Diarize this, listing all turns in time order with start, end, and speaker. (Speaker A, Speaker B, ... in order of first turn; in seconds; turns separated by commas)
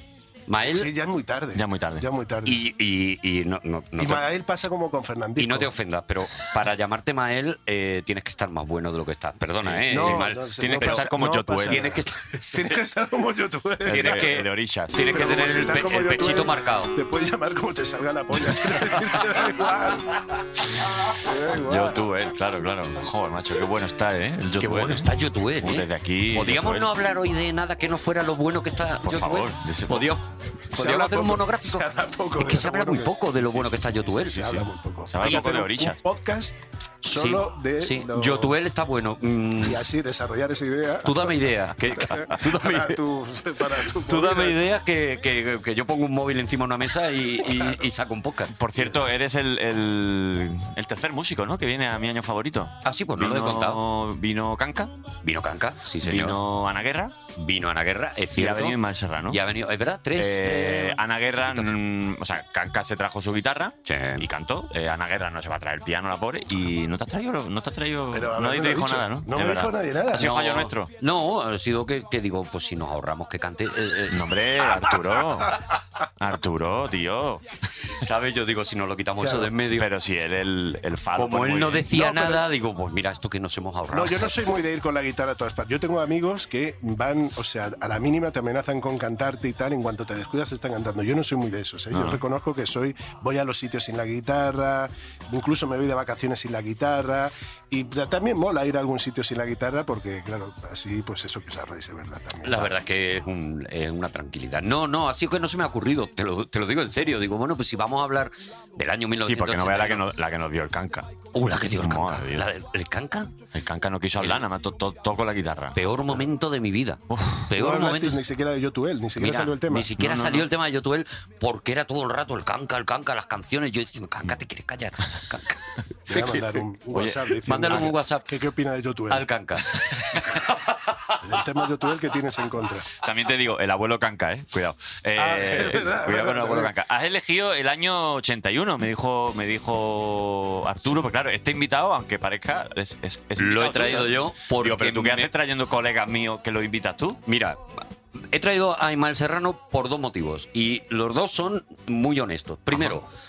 Speaker A: 0.5-0.9, Speaker B: 0.6-2.6, Speaker C: 1.5-2.0, Speaker A: 2.5-4.2, Speaker B: 4.0-5.7, Speaker A: 5.4-11.1, Speaker C: 9.6-12.0, Speaker B: 9.9-14.4, Speaker A: 11.7-12.8, Speaker C: 13.9-16.3, Speaker A: 13.9-16.9, Speaker B: 14.9-20.1, Speaker B: 21.2-22.0, Speaker C: 21.6-27.1, Speaker A: 24.6-31.9, Speaker C: 29.0-30.1, Speaker B: 30.7-38.6, Speaker A: 32.4-34.5, Speaker C: 34.2-36.0, Speaker A: 37.1-39.8, Speaker B: 39.6-44.6, Speaker A: 41.0-43.0, Speaker A: 44.0-48.5, Speaker C: 48.5-54.9, Speaker B: 48.8-49.0, Speaker A: 52.8-53.8, Speaker A: 55.2-56.4, Speaker C: 56.0-57.1, Speaker A: 57.4-58.8, Speaker C: 58.4-59.4, Speaker A: 59.3-61.7, Speaker C: 60.2-70.9, Speaker A: 63.9-64.3, Speaker B: 68.1-70.6, Speaker A: 70.2-74.2, Speaker C: 74.1-75.6, Speaker C: 76.2-77.4, Speaker A: 78.0-79.9, Speaker B: 79.2-79.5, Speaker C: 79.7-81.9, Speaker A: 81.2-84.3, Speaker B: 81.9-82.4, Speaker B: 83.9-102.8, Speaker C: 91.9-92.2, Speaker A: 102.4-110.0, Speaker C: 109.2-111.1, Speaker A: 111.3-113.3, Speaker C: 111.7-112.5, Speaker C: 113.5-116.2, Speaker A: 115.7-118.2, Speaker C: 117.1-117.5, Speaker B: 117.5-119.9, Speaker A: 119.2-126.5, Speaker C: 120.0-120.5, Speaker B: 126.1-129.3, Speaker C: 126.9-127.9, Speaker A: 127.5-128.3, Speaker A: 129.1-131.2, Speaker B: 131.2-132.9, Speaker C: 133.0-147.2, Speaker B: 135.2-136.7, Speaker A: 143.4-145.3, Speaker A: 147.3-147.6, Speaker A: 148.2-153.1, Speaker C: 152.7-153.0